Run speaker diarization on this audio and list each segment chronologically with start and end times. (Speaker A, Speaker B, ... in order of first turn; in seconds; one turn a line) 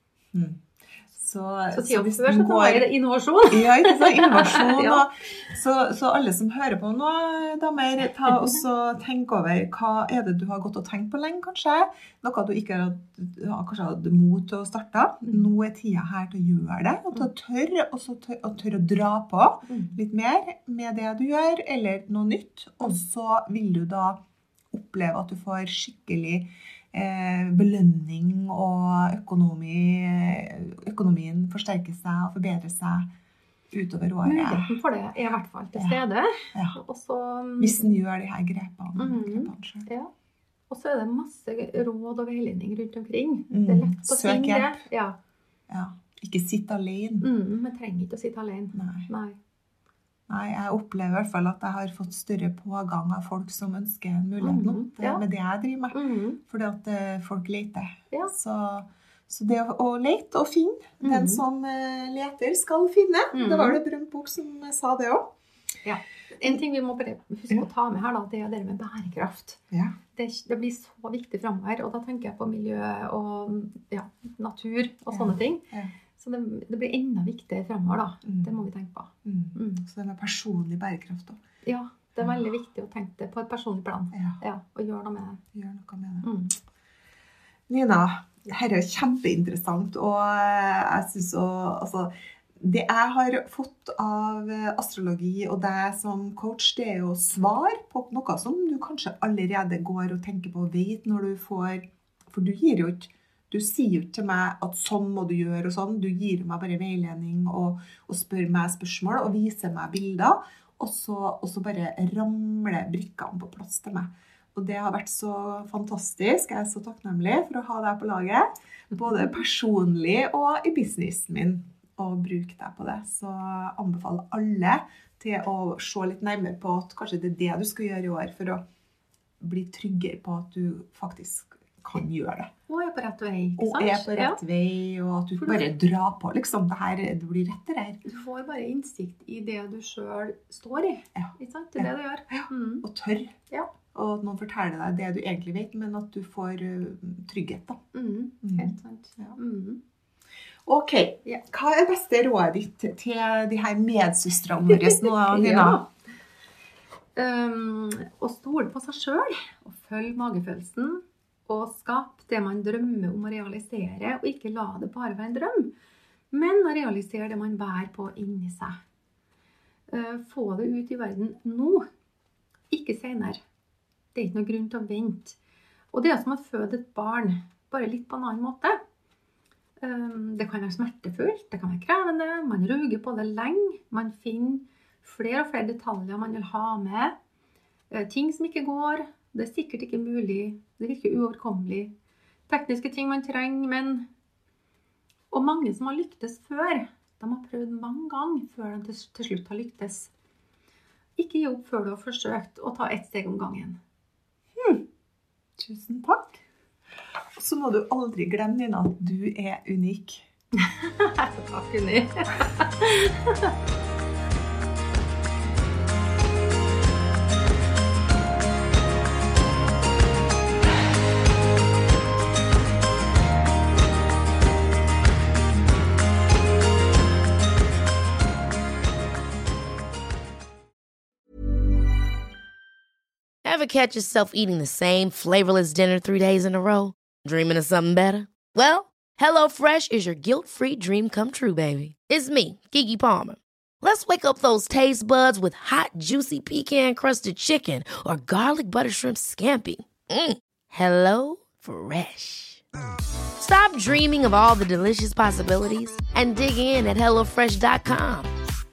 Speaker A: 0.3-2.9
Speaker B: 1.7-5.0
Speaker A: 3.5-33.1
Speaker A: 33.7-34.8
Speaker B: 34.2-37.9
Speaker A: 37.6-39.9
Speaker B: 39.0-40.1
Speaker B: 40.7-45.2
Speaker A: 43.5-44.8
Speaker A: 45.7-47.3
Speaker B: 47.2-49.4
Speaker A: 48.7-49.1
Speaker A: 50.3-65.3
Speaker B: 54.4-55.2
Speaker B: 55.9-56.4
Speaker B: 61.0-61.4
Speaker B: 63.3-63.8
Speaker B: 65.8-69.6
Speaker A: 69.7-70.0
Speaker B: 70.1-75.7
Speaker A: 75.1-75.9
Speaker B: 76.2-79.8
Speaker A: 78.2-78.6
Speaker A: 79.2-81.4
Speaker B: 81.6-85.4
Speaker A: 84.1-84.4
Speaker A: 85.5-86.3
Speaker B: 86.2-86.5
Speaker A: 87.7-128.6
Speaker A: 129.4-132.5
Speaker B: 132.7-134.4
Speaker A: 133.6-138.1
Speaker B: 135.4-135.7
Speaker B: 138.0-142.8
Speaker A: 141.1-147.8
Speaker B: 147.9-149.8
Speaker A: 148.4-149.4
Speaker A: 150.6-155.8
Speaker B: 154.7-155.9
Speaker B: 157.2-165.7
Speaker B: 166.3-168.8
Speaker B: 169.9-171.9
Speaker B: 172.7-173.4
Speaker B: 174.1-175.4
Speaker B: 175.9-178.8
Speaker B: 179.8-187.1
Speaker B: 187.9-191.9
Speaker B: 192.5-194.1
Speaker B: 195.3-200.1
Speaker B: 201.2-203.8
Speaker A: 205.6-206.4
Speaker A: 207.3-210.3
Speaker B: 210.6-213.5
Speaker C: 233.4-252.6
Speaker C: 253.4-258.3